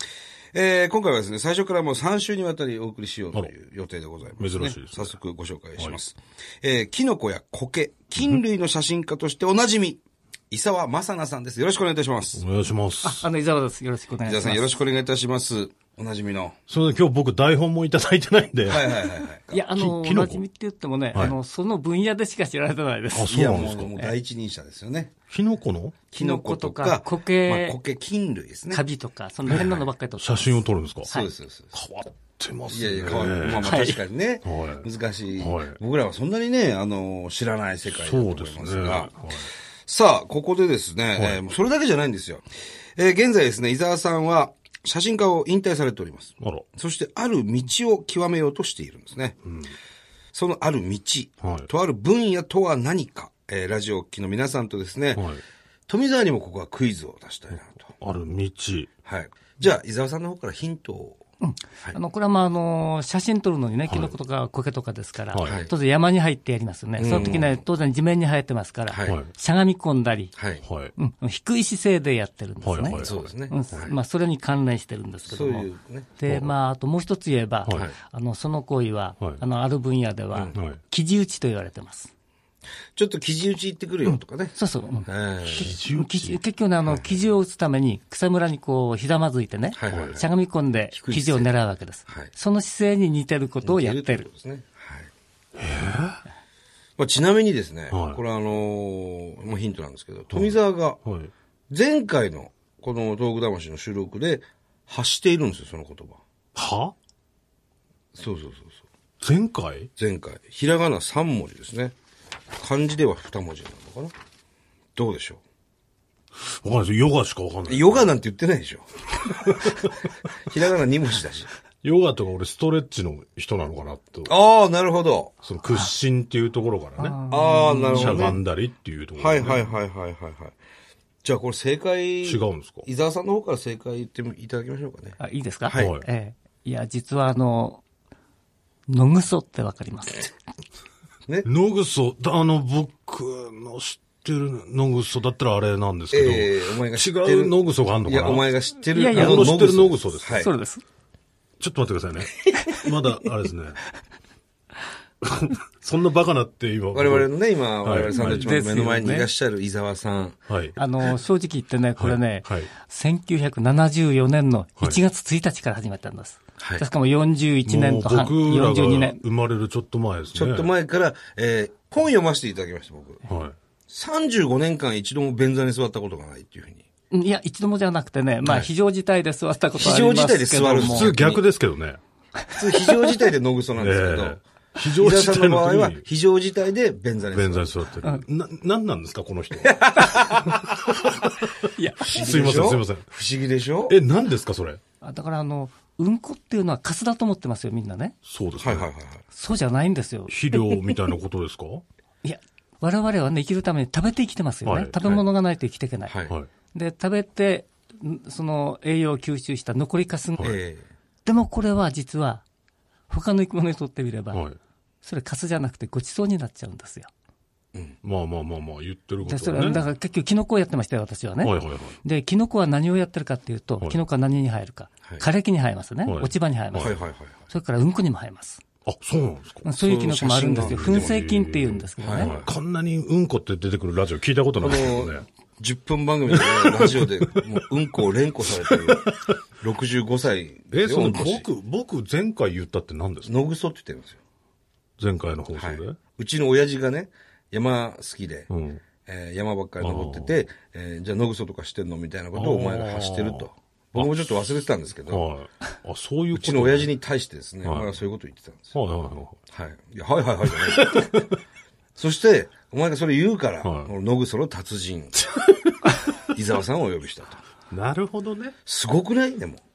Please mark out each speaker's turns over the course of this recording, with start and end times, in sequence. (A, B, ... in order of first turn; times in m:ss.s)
0:00.5-0:12.4 A
0:04.4-0:05.2 B
0:12.4-0:13.3 B
0:13.0-0:14.8 C
0:14.2-0:16.6 A
0:16.7-0:19.1 B
0:18.7-0:19.6 A
0:19.5-0:23.4 C
0:19.8-0:20.4 B
0:23.1-0:24.1 B
0:23.3-0:25.1 A
0:25.3-0:26.0 B
0:26.1-0:28.8 A
0:26.2-0:27.8 C
0:28.7-0:31.3 C
0:29.5-0:31.1 B
0:31.0-0:31.7 A
0:31.7-0:33.9 B
0:32.7-0:39.1 A
0:33.6-0:34.0 C
0:34.4-0:34.9 B
0:35.4-0:35.8 B
0:37.9-0:39.5 B
0:39.9-0:42.4 A
0:41.2-0:41.4 B
0:43.0-0:49.4 A
0:49.4-0:49.7 B
0:50.3-0:55.3 A
0:51.4-0:51.7 B
0:55.2-0:55.4 B
0:55.9-0:57.9 A
0:58.0-0:58.9 B
0:59.0-1:01.2 A
1:01.4-1:10.3 C
1:03.9-1:04.2 B
1:05.4-1:05.7 A
1:07.0-1:07.4 B
1:07.0-1:07.6 A
1:08.9-1:09.2 A
1:10.4-1:10.6 A
1:10.6-1:10.9 B
1:11.0-1:22.1 C
1:12.6-1:13.3 B
1:12.9-1:13.9 A
1:15.3-1:16.1 A
1:16.3-1:16.5 B
1:20.3-1:20.6 A
1:20.6-1:20.8 B
1:23.0-1:24.6 A
1:24.0-1:34.3 C
1:25.1-1:25.8 A
1:25.4-1:26.4 B
1:26.9-1:27.2 A
1:29.7-1:30.3 A
1:29.9-1:30.2 B
1:30.9-1:31.5 A
1:33.6-1:35.1 A
1:35.6-1:36.2 B
1:37.0-1:41.0 A
1:37.9-1:38.2 B
1:40.3-1:41.3 B
1:41.7-1:46.2 A
1:46.6-1:46.9 B
1:48.2-1:48.8 A
1:49.2-1:49.9 B
1:50.0-1:51.9 A
1:52.6-1:54.1 A
1:55.0-1:55.4 A
1:56.4-1:58.1 B
1:57.7-1:58.9 A
1:59.2-1:59.9 B
1:59.4-1:59.9 A
2:00.4-2:01.5 A
2:01.8-2:04.3 B
2:04.3-2:05.3 A
2:05.4-2:07.2 B
2:07.0-2:08.3 C
2:07.3-2:08.4 A
2:07.9-2:09.7 B
2:09.2-2:10.6 A
2:11.2-2:15.9 A
2:12.2-2:12.9 B
2:15.2-2:17.8 C
2:15.8-2:16.0 B
2:18.9-2:20.3 C
2:21.4-2:28.5 B
2:26.1-2:30.5 A
2:28.9-2:29.5 C
2:29.1-2:30.4 B
2:30.3-2:30.8 C
2:31.6-2:33.8 B
2:35.2-2:37.3 B
2:36.9-2:40.4 A
2:37.8-2:38.5 B
2:38.1-2:39.3 C
2:40.5-2:40.8 B
2:40.8-2:49.2 C
2:42.0-2:42.7 B
2:46.6-2:46.9 A
2:47.7-2:50.7 B
2:50.3-2:53.2 A
2:53.3-2:53.6 B
2:53.9-2:56.8 A
2:57.1-3:01.2 C
2:58.4-2:58.7 A
2:59.7-3:01.4 A
3:00.8-3:02.0 B
3:02.6-3:07.8 A
3:02.7-3:03.1 C
3:03.8-3:06.0 B
3:07.3-3:13.1 B
3:09.6-3:10.6 A
3:11.8-3:12.2 C
3:12.1-3:14.0 A
3:13.9-3:14.8 B
3:15.0-3:18.2 C
3:18.2-3:18.9 B
3:18.6-3:19.2 A
3:19.3-3:21.0 C
3:20.3-3:21.8 B
3:22.2-3:26.1 C
3:24.6-3:25.0 B
3:26.1-3:26.4 A
3:26.7-3:30.6 C
3:30.4-3:30.9 A
3:31.2-3:32.4 C
3:33.1-3:34.4 C
3:35.0-3:37.1 C
3:38.0-3:39.8 B
3:39.2-3:48.6 C
3:41.4-3:42.0 B
3:46.1-3:47.0 B
3:46.8-3:47.4 A
3:48.8-3:49.7 B
3:49.6-3:52.3 C
3:49.8-3:51.1 A
3:50.6-3:55.2 B
3:52.0-3:52.5 A
3:54.6-4:01.5 A
3:56.3-3:57.4 B
3:58.7-3:59.4 B
4:00.7-4:03.3 B
4:03.2-4:04.2 A
4:05.0-4:06.0 B
4:05.6-4:08.5 A
4:08.5-4:08.8 B
4:09.0-4:15.2 A
4:09.8-4:10.4 B
4:12.4-4:14.5 B
4:15.1-4:16.9 B
4:16.3-4:18.8 A
4:17.6-4:18.0 B
4:18.7-4:19.4 B
4:19.5-4:21.2 A
4:20.5-4:21.2 B
4:22.0-4:25.2 A
4:23.6-4:23.9 B
4:25.2-4:25.9 B
4:26.3-4:27.4 A
4:27.7-4:28.5 B
4:28.6-4:29.6 A